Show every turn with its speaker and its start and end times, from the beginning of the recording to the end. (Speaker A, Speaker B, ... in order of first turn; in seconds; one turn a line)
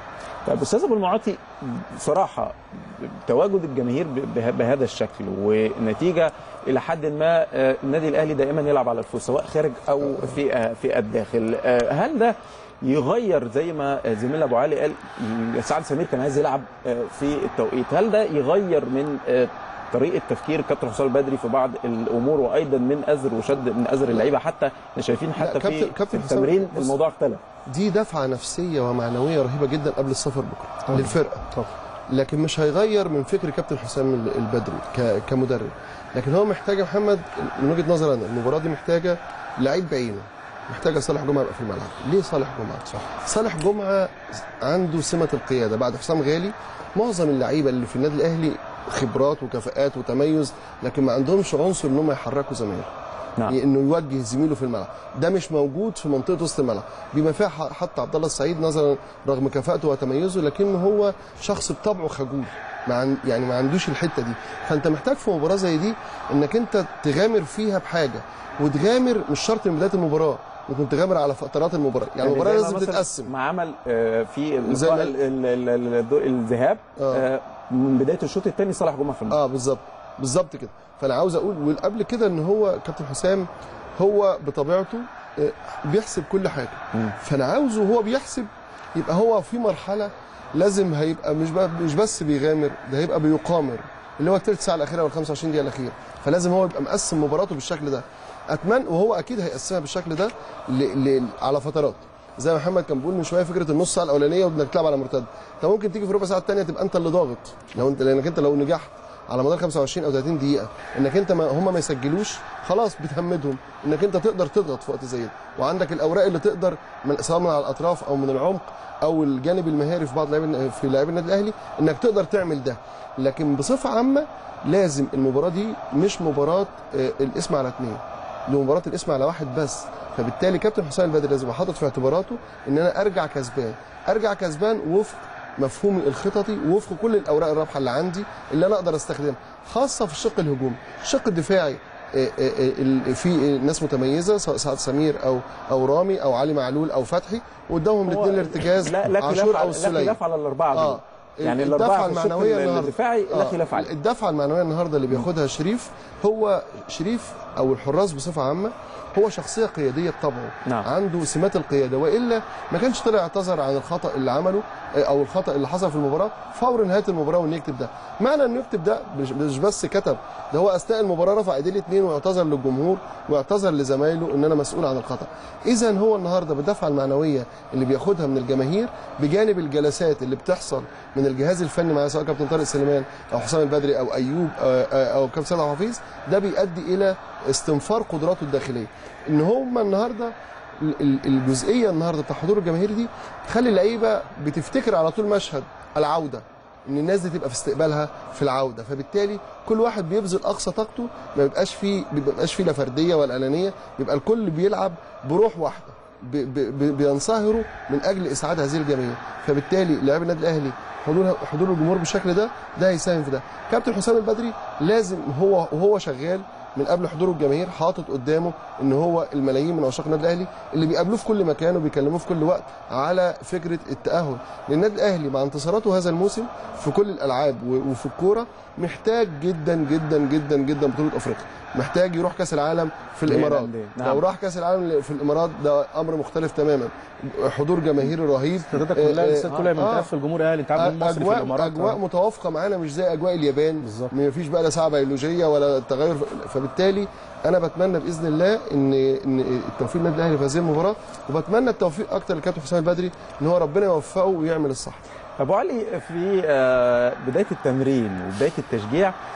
Speaker A: 0.5-27.4
Speaker B: 25.4-26.9
Speaker B: 27.7-31.5
Speaker C: 30.9-31.7
Speaker B: 32.1-52.9
Speaker B: 53.5-73.3
Speaker A: 72.2-79.4
Speaker B: 74.7-75.2
Speaker B: 77.0-77.3
Speaker B: 79.3-150.2
Speaker A: 148.0-153.9
Speaker B: 150.7-240.1
Speaker A: 233.3-234.2
Speaker C: 238.7-242.0
Speaker B: 240.8-255.0
Speaker C: 243.8-244.1
Speaker A: 255.4-259.1